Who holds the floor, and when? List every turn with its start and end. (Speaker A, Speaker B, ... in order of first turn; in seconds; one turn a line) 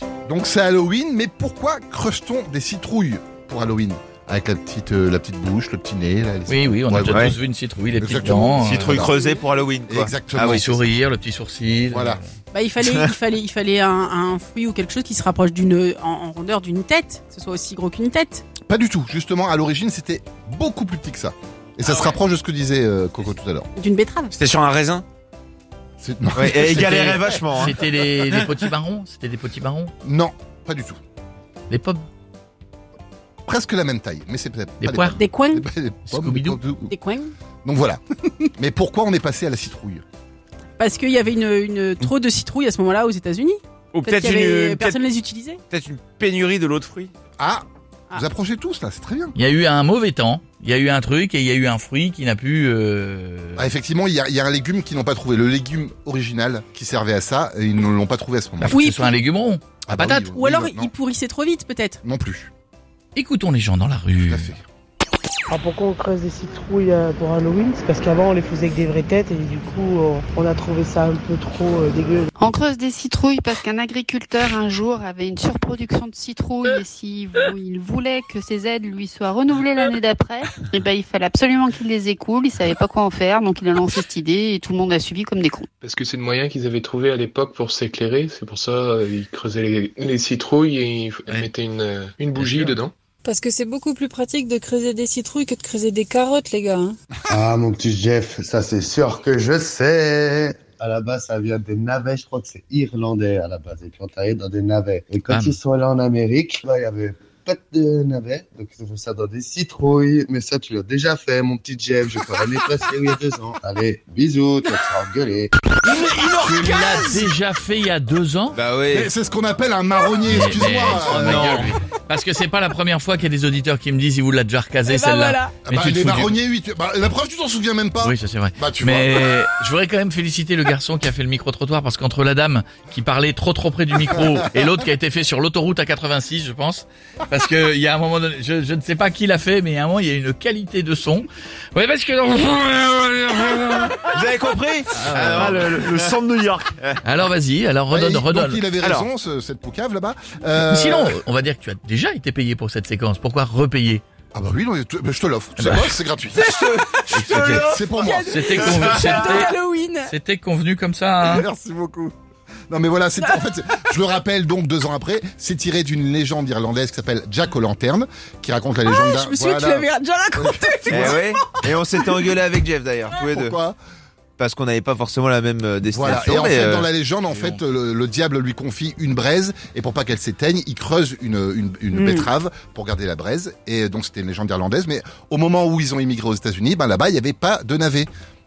Speaker A: 0.3-7.3
Speaker B: 6.5-9.0
Speaker C: 7.0-7.3
Speaker A: 8.0-9.2
Speaker C: 8.6-10.7
Speaker A: 9.9-10.8
Speaker B: 10.5-12.3
Speaker A: 11.9-12.2
Speaker D: 12.5-18.4
Speaker C: 12.8-13.1
Speaker A: 18.7-23.7
Speaker D: 23.8-24.3
Speaker C: 24.3-25.0
Speaker A: 26.0-27.4
Speaker C: 26.4-28.5
Speaker B: 26.8-29.9
Speaker A: 30.0-31.0
Speaker B: 31.7-32.0
Speaker A: 33.5-36.9
Speaker B: 34.8-35.2
Speaker D: 35.1-35.6
Speaker B: 36.0-36.6
Speaker D: 36.9-37.3
Speaker A: 37.6-40.0
Speaker D: 40.8-45.6
Speaker C: 43.9-45.0
Speaker C: 45.7-47.1
Speaker A: 47.4-49.3
Speaker B: 49.4-53.7
Speaker A: 53.6-58.8
Speaker B: 58.6-60.3
Speaker D: 58.7-59.1
Speaker A: 59.9-60.9
Speaker D: 60.3-62.0
Speaker A: 62.0-62.5
Speaker B: 63.1-64.5
Speaker A: 64.2-64.6
Speaker E: 65.5-72.3
Speaker F: 72.4-85.7
Speaker G: 85.8-92.9
Speaker B: 92.3-92.8
Speaker H: 93.2-97.0
Speaker I: 97.3-115.5
Speaker B: 105.3-105.6
Speaker B: 115.8-118.6
Speaker C: 118.5-119.1
Speaker A: 118.9-121.7
Speaker B: 120.2-126.3
Speaker C: 121.1-121.7
Speaker D: 124.8-125.5
Speaker A: 125.7-129.3
Speaker B: 128.0-144.1
Speaker C: 144.1-147.0
Speaker B: 145.0-145.8
Speaker B: 147.0-148.7
Speaker A: 147.9-151.2
Speaker C: 148.8-149.1
Speaker B: 150.6-154.0
Speaker A: 154.3-156.5
Speaker B: 155.6-155.9
Speaker C: 156.4-157.8
Speaker D: 157.0-160.1
Speaker A: 157.1-159.2
Speaker B: 158.3-161.5
Speaker A: 161.2-162.1
Speaker A: 162.7-171.2
Speaker D: 163.2-163.4
Speaker D: 168.9-172.3
Speaker C: 170.9-173.6
Speaker A: 173.2-173.8
Speaker C: 174.4-176.9
Speaker A: 175.9-188.1
Speaker B: 177.3-177.6
Speaker D: 181.9-182.3